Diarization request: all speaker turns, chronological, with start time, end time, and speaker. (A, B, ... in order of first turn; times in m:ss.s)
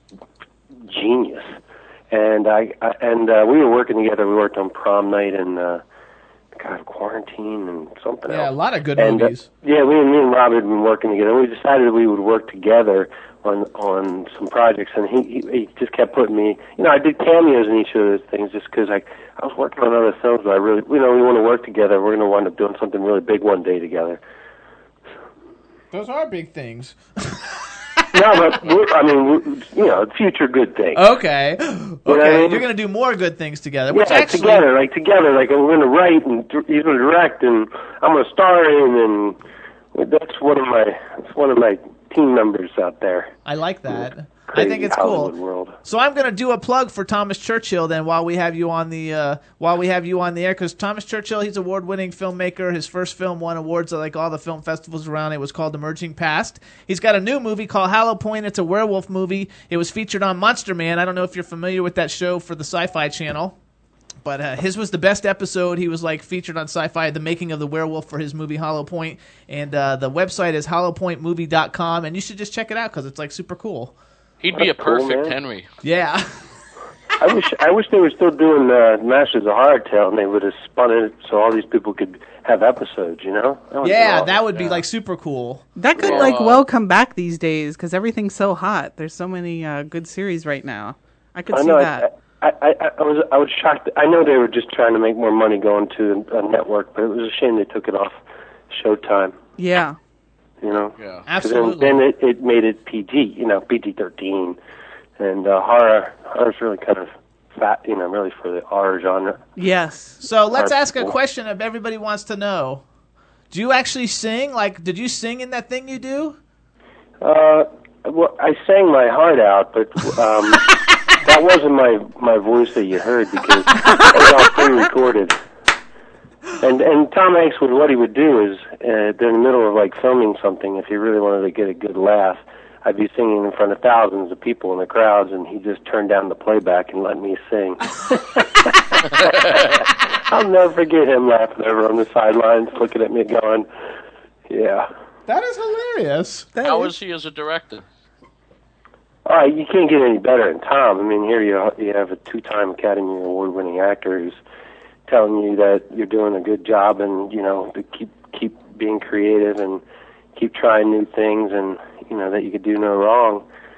0:00.8-0:01.6 A
0:02.1-0:05.8 A
0:06.6-0:24.2 A
0:08.3-0:09.5 B
0:25.9-0:27.5 B
0:28.1-0:31.0 A
0:31.0-0:34.7 B
0:32.1-0:32.7 A
0:33.9-0:39.4 A
0:39.9-0:43.3 A
0:43.5-0:45.3 B
0:43.9-0:45.8 A
0:45.8-1:03.6 B
1:04.2-1:13.9 B
1:14.4-1:15.7 C
1:14.5-1:15.4 A
1:15.8-1:16.4 B
1:17.2-1:24.5 A
1:23.8-1:25.6 B
1:24.6-1:24.8 C
1:25.8-1:32.1 D
1:26.0-1:26.6 C
1:31.5-1:39.4 A
1:39.6-1:40.0 D
1:40.6-1:44.6 A
1:41.0-1:41.2 C
1:41.3-1:42.0 B
1:45.2-1:49.5 A
1:49.6-1:50.2 D
1:50.2-1:52.8 B
1:50.5-1:51.2 A
1:53.5-1:56.4 B
1:57.2-2:00.7 A
2:01.2-2:05.4 A
2:06.6-2:23.7 A
2:19.1-2:19.8 C
2:24.5-2:24.9 A
2:25.3-2:26.5 B
2:26.6-2:26.9 D
2:26.6-2:27.8 C
2:29.3-2:34.4 A
2:35.1-2:39.8 A
2:40.4-2:43.4 A